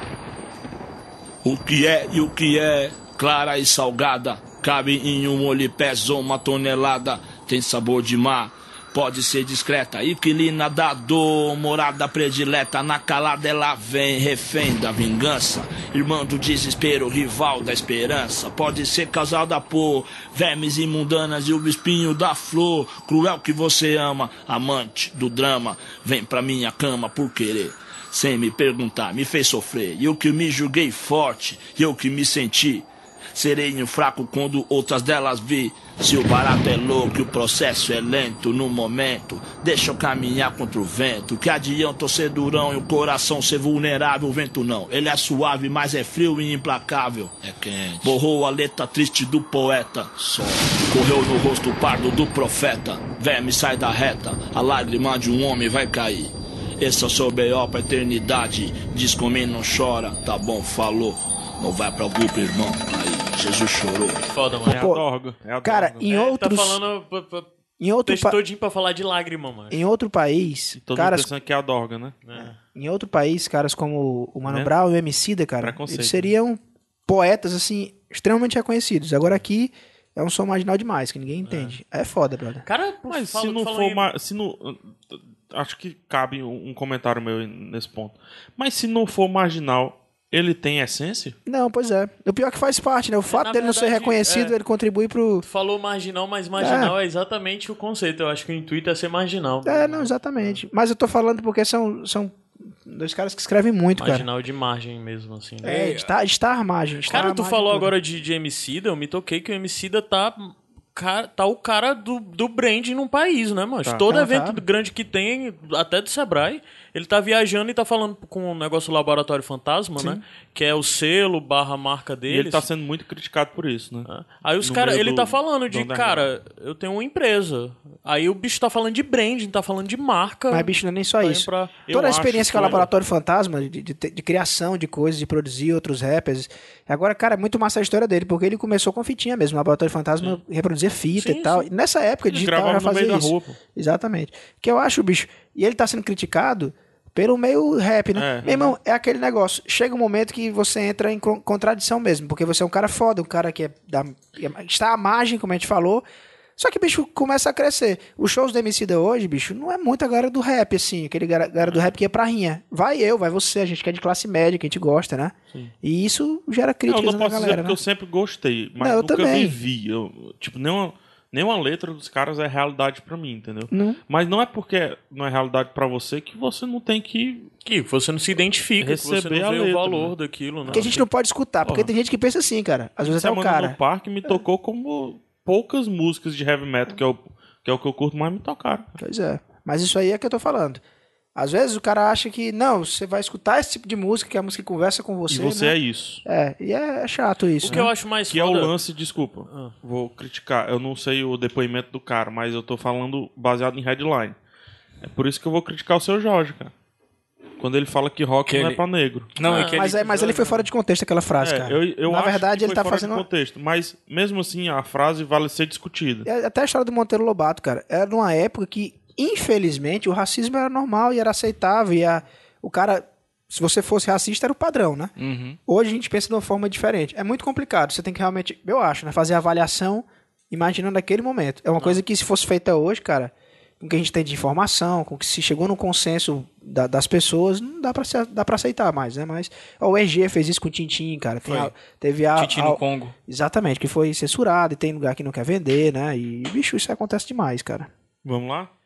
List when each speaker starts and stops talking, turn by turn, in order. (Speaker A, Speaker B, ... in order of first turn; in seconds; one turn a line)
Speaker A: 1.4-64.3
Speaker B: 64.2-64.9
Speaker C: 64.7-66.1
Speaker D: 64.7-65.1
Speaker D: 65.6-66.8
Speaker B: 66.1-67.5
Speaker D: 67.8-68.4
Speaker B: 68.1-69.8
Speaker D: 69.7-71.3
Speaker C: 70.8-72.2
Speaker B: 72.2-72.5
Speaker D: 72.3-82.7
Speaker C: 74.5-74.7
Speaker C: 75.6-76.3
Speaker B: 81.5-81.8
Speaker B: 82.7-84.1
Speaker C: 83.1-91.4
Speaker D: 91.5-95.5
Speaker B: 93.3-94.5
Speaker B: 95.4-100.6
Speaker D: 96.6-96.9
Speaker D: 99.7-104.3
Speaker B: 104.0-106.0
Speaker E: 105.6-106.1
Speaker D: 105.6-108.0
Speaker B: 107.1-122.7
Speaker D: 114.1-114.6
Speaker D: 120.0-120.2
Speaker C: 122.3-124.1
Speaker B: 124.1-131.8
Speaker C: 124.6-126.3
Speaker D: 130.5-156.1
Speaker C: 131.9-132.9
Speaker B: 141.2-141.7
Speaker C: 142.3-143.6
Speaker C: 148.2-148.5
Speaker B: 148.4-148.7
Speaker D: 156.6-167.8
Speaker C: 166.9-177.5
Speaker D: 168.8-169.6
Speaker D: 173.7-174.0
Speaker B: 177.7-181.0
Speaker C: 178.8-181.0
Speaker D: 180.7-183.8
Speaker C: 181.6-181.9
Speaker C: 183.0-188.9
Speaker D: 189.0-190.8
Speaker D: 191.3-197.9
Speaker C: 195.3-196.2
Speaker B: 197.6-198.7
Speaker C: 197.6-204.4
Speaker B: 199.5-199.7
Speaker C: 205.0-206.7
Speaker C: 207.6-209.3
Speaker E: 208.5-208.8
Speaker E: 209.3-210.4
Speaker B: 209.4-210.6
Speaker D: 209.7-213.3
Speaker C: 211.4-216.3
Speaker D: 216.2-225.1
Speaker E: 225.2-225.6
Speaker D: 225.7-247.9
Speaker E: 241.5-241.7
Speaker E: 242.4-243.1
Speaker C: 248.2-248.7